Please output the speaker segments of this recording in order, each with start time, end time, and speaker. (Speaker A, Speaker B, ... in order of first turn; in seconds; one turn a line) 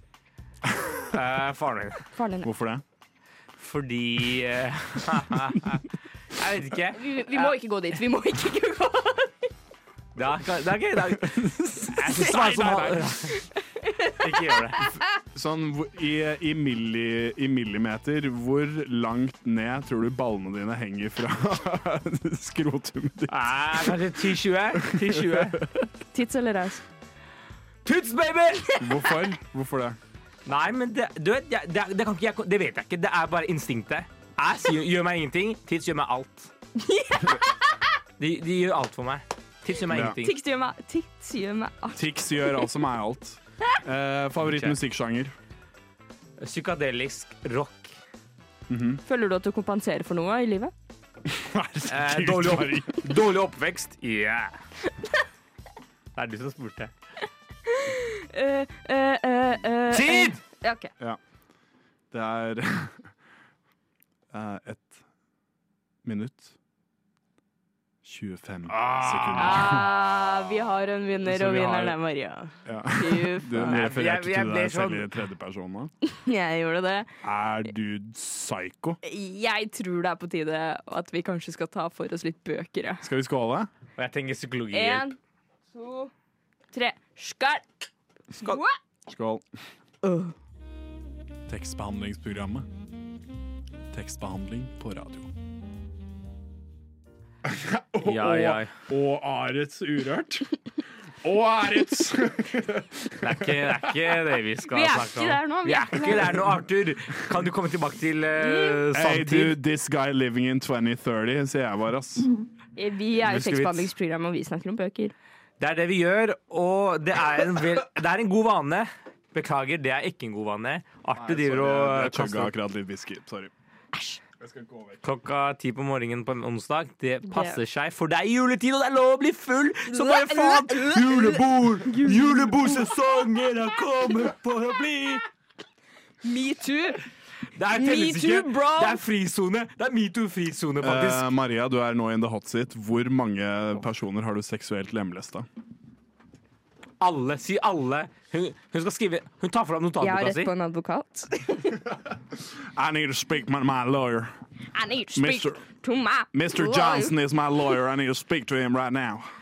Speaker A: 1.1-2.1
Speaker B: 2.1-2.5
Speaker C: 2.4-2.8
Speaker A: 3.6-7.5
Speaker B: 6.9-9.4
Speaker A: 10.2-13.4
Speaker C: 11.3-13.1
Speaker B: 12.1-15.0
Speaker A: 14.2-14.9
Speaker C: 15.3-24.2
Speaker A: 23.3-25.7
Speaker C: 24.8-25.9
Speaker B: 26.1-26.8
Speaker A: 27.9-28.8
Speaker C: 28.8-30.0
Speaker A: 30.5-36.5
Speaker B: 36.8-37.6
Speaker A: 38.2-40.4
Speaker C: 39.9-40.2
Speaker B: 40.2-42.7
Speaker C: 41.9-45.3
Speaker A: 44.4-44.8
Speaker A: 46.4-48.0
Speaker C: 48.7-49.0
Speaker B: 49.0-50.7
Speaker C: 51.3-53.1
Speaker A: 51.9-54.6
Speaker A: 56.1-56.9
Speaker B: 57.7-60.9
Speaker A: 59.9-60.4
Speaker C: 62.1-63.1
Speaker C: 64.3-65.0
Speaker C: 66.0-66.6
Speaker C: 68.0-69.9
Speaker A: 68.7-69.8
Speaker B: 69.4-73.8
Speaker C: 71.3-72.0
Speaker C: 72.7-75.9
Speaker A: 73.7-75.1
Speaker B: 76.1-77.1
Speaker C: 77.2-79.0
Speaker B: 79.0-83.1
Speaker C: 83.0-83.7
Speaker A: 84.0-85.1
Speaker B: 84.7-85.2
Speaker B: 85.7-86.1
Speaker B: 86.7-87.7
Speaker B: 88.4-88.8
Speaker C: 89.1-89.5
Speaker B: 90.0-90.3
Speaker C: 91.5-92.7
Speaker C: 93.9-95.3
Speaker C: 97.5-100.5
Speaker A: 98.0-98.7
Speaker C: 101.2-104.1
Speaker A: 103.2-109.6
Speaker B: 104.7-106.5
Speaker B: 108.4-108.8
Speaker C: 108.9-112.3
Speaker B: 112.8-115.1
Speaker A: 113.3-113.7
Speaker A: 115.6-122.5
Speaker C: 121.2-123.5
Speaker B: 123.9-124.2
Speaker C: 124.4-125.0
Speaker A: 125.0-135.2
Speaker B: 127.3-127.6
Speaker B: 129.9-132.9
Speaker B: 136.2-137.0
Speaker A: 137.6-141.3
Speaker B: 137.7-139.0
Speaker C: 140.8-145.5
Speaker A: 147.0-150.5
Speaker B: 150.0-151.8
Speaker C: 152.6-154.3
Speaker B: 154.7-157.2
Speaker C: 155.2-155.6
Speaker C: 156.3-159.3